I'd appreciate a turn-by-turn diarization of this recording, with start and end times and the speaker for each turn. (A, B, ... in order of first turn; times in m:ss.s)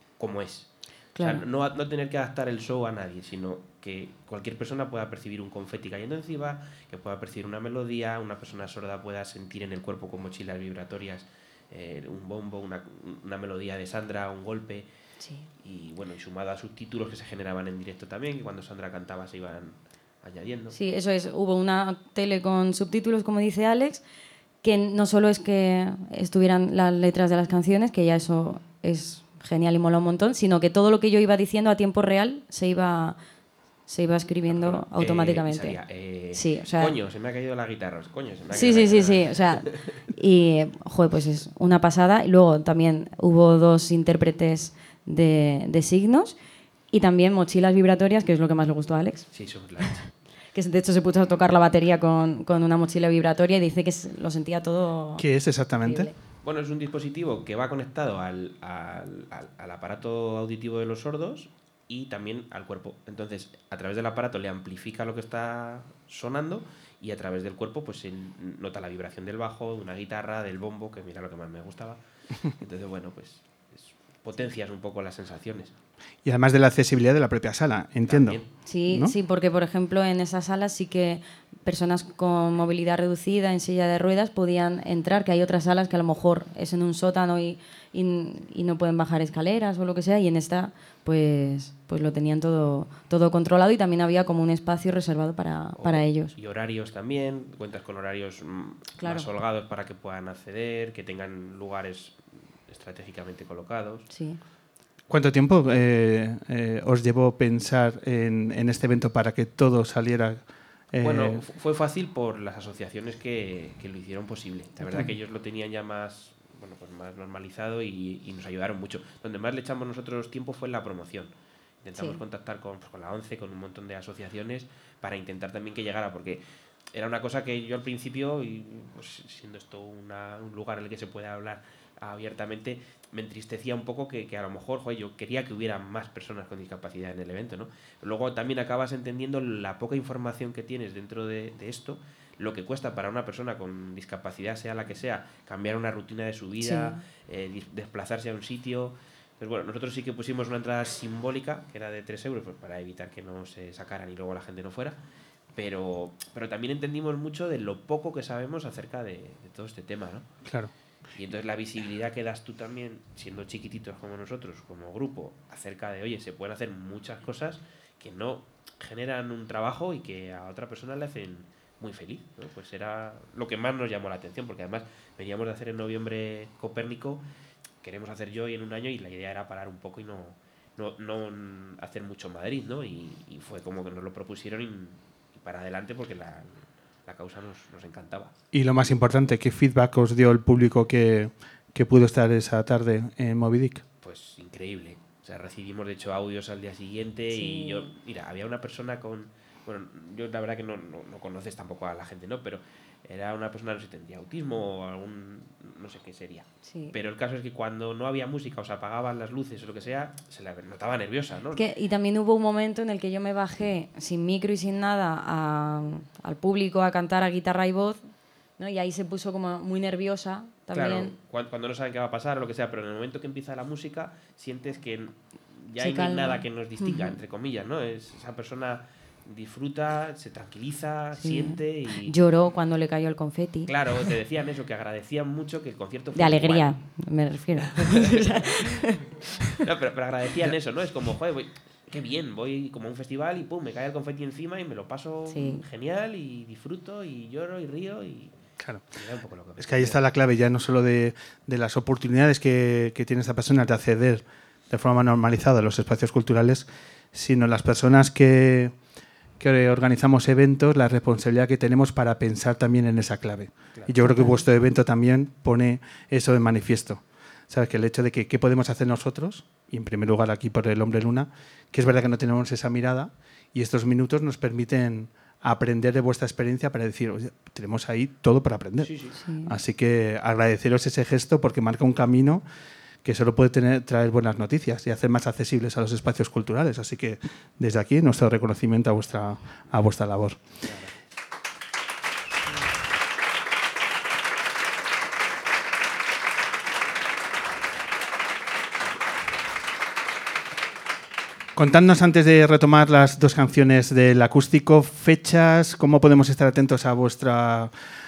0:00.2-0:14.9 A
0:01.1-0:01.4 B
0:15.2-0:15.4 B
0:15.6-0:20.8 A
0:20.7-0:24.0 B
0:24.6-0:33.2 B
0:33.9-0:35.8 B
0:34.5-0:39.8 A
0:36.3-0:36.9 B
0:38.5-0:46.3 B
0:46.9-0:49.2 B
0:49.3-0:50.1 A
0:50.5-0:55.2 B
0:55.2-0:56.1 C
0:55.8-0:56.1 B
0:56.4-1:15.7 A
1:16.2-1:19.1 C
1:18.0-1:18.5 A
1:18.6-1:36.3 B
1:35.8-1:44.1 A
1:39.0-1:39.3 B
1:44.1-1:44.4 B
1:45.1-1:51.4 C
1:51.0-2:01.3 A
2:01.8-2:35.0 A
2:26.6-2:27.0 B
2:35.5-2:40.3 A
2:40.4-2:40.7 C
2:41.2-2:57.2 A
2:57.8-3:08.3 A
3:08.5-3:13.8 C
3:14.0-3:31.6 A
3:17.3-3:17.9 B
3:26.7-3:26.9 B
3:31.5-3:38.0 B
3:38.6-3:41.1 B
3:40.7-3:52.1 A
3:45.8-3:47.2 B
3:51.2-3:53.7 B
3:53.7-3:56.7 A
3:56.1-3:59.0 B
3:57.6-3:58.4 A
3:59.6-4:08.4 A
4:05.3-4:05.6 B
4:08.9-4:10.0 A
4:09.6-4:18.7 C
4:19.4-4:42.4 C
4:24.0-4:24.4 B
4:38.8-4:39.2 A
4:39.2-4:39.5 B
4:43.0-4:50.4 C
4:50.6-4:50.9 A
5:01.5-5:07.7 C